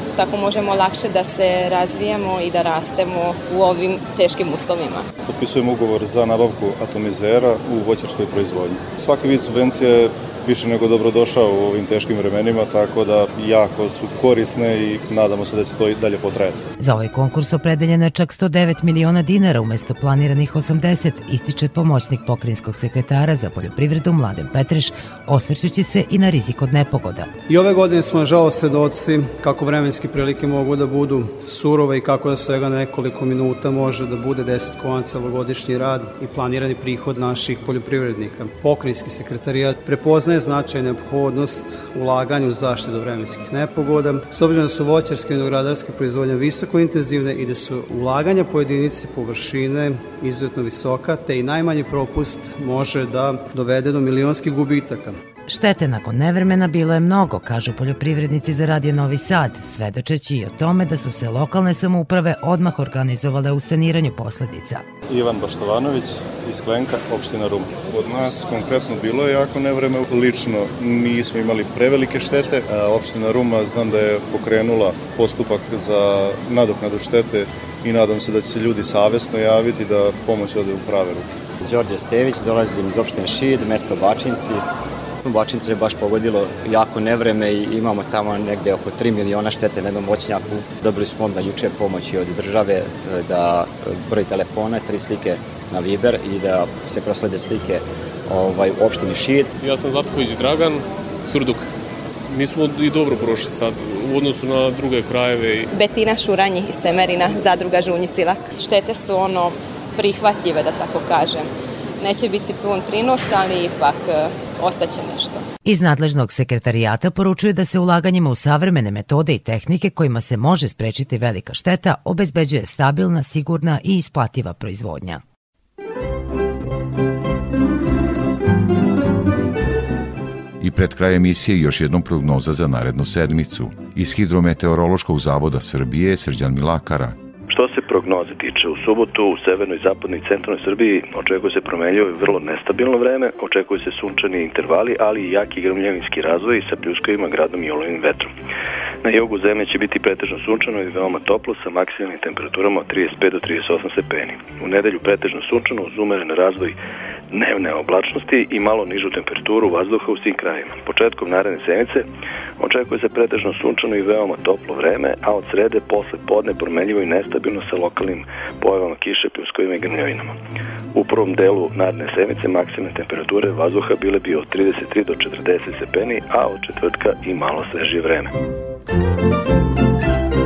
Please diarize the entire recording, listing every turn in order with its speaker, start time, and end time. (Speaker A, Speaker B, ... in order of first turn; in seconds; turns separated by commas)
Speaker A: 0.2-5.1, Speaker B: 5.3-16.7, Speaker C: 16.8-27.3, Speaker D: 27.5-55.2, Speaker C: 55.5-64.8, Speaker B: 65.1-81.3, Speaker E: 81.6-84.6, Speaker E: 85.2-99.5, Speaker F: 99.6-101.7, Speaker F: 102.3-105.7, Speaker A: 105.7-115.5, Speaker C: 115.6-125.2, Speaker G: 130.6-137.2, Speaker H: 137.5-148.3, Speaker H: 149.0-156.8, Speaker H: 157.3-162.1, Speaker H: 162.6-170.3, Speaker H: 170.9-178.3